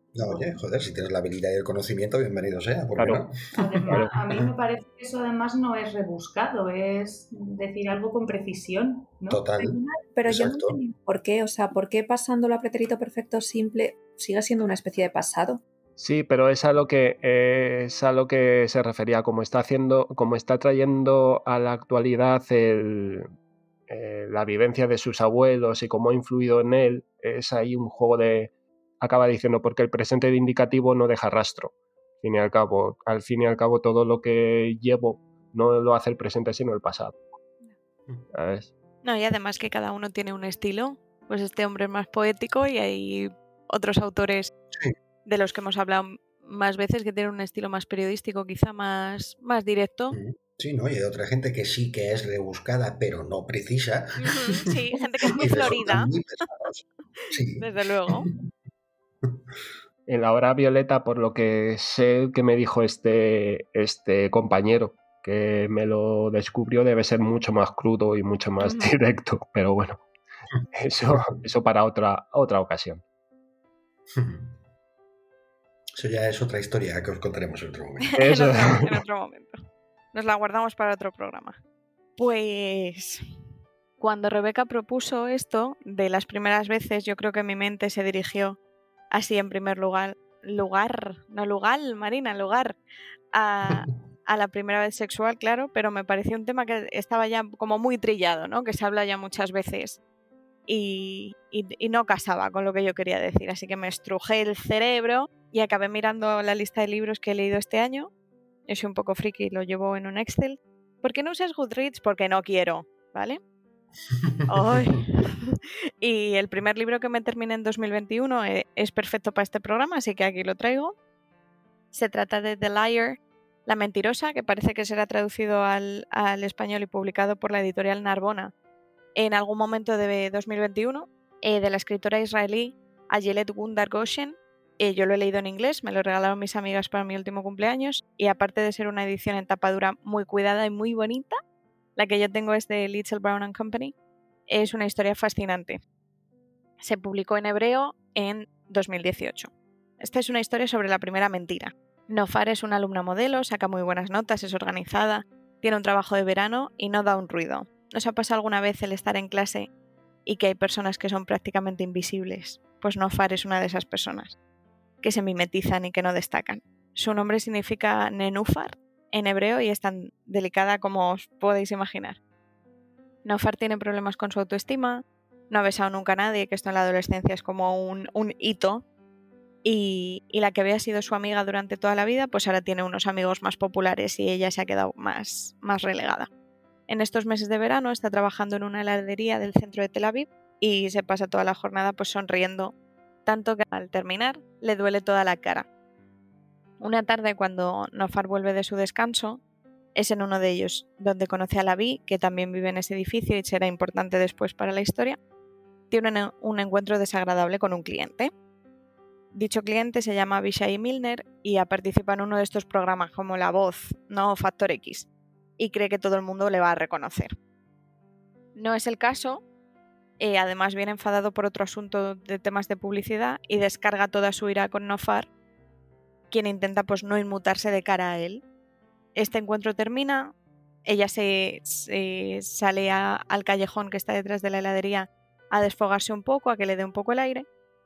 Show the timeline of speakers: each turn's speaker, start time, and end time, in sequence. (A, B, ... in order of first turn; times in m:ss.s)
0:00.2-0:03.4 A
0:03.0-0:03.2 B
0:03.6-0:09.4 C
0:03.9-0:04.4 A
0:09.3-0:10.8 A
0:09.8-0:15.6 D
0:16.0-0:23.3 B
0:23.9-0:37.2 B
0:38.3-0:38.7 B
0:39.0-0:44.5 E
0:45.3-0:50.2 E
0:50.1-0:58.3 A
0:54.2-0:56.1 E
0:57.6-0:58.3 E
1:00.1-1:10.0 B
1:08.6-1:08.9 E
1:10.8-1:13.0 B
1:14.2-1:14.5 A
1:16.0-1:18.1 A
1:18.1-1:19.6 E
1:18.2-1:18.8 B
1:20.1-1:21.6 E
1:22.2-1:23.2 E
1:24.0-1:28.6 E
1:29.1-1:32.8 E
1:33.3-1:40.0 E
1:40.7-1:48.1 E
1:48.7-1:53.4 E
1:54.5-1:55.4 E
1:56.0-2:01.0 E
2:01.9-2:08.5 E
2:09.2-2:21.4 E
2:22.0-2:23.9 E
2:24.5-2:25.8 E
2:26.8-2:39.7 E
2:40.3-2:44.4 E
2:45.0-2:52.2 E
2:53.2-2:58.8 E
2:59.6-3:06.3 E
3:06.9-3:12.7 E
3:13.3-3:15.7 E
3:16.8-3:19.4 E
3:20.0-3:25.2 E
3:25.9-3:28.3 E
3:29.3-3:37.3 E
3:38.6-3:39.4 E
3:40.2-3:45.3 E
3:46.3-3:48.4 E
3:49.2-3:50.3 E
3:50.9-3:57.5 E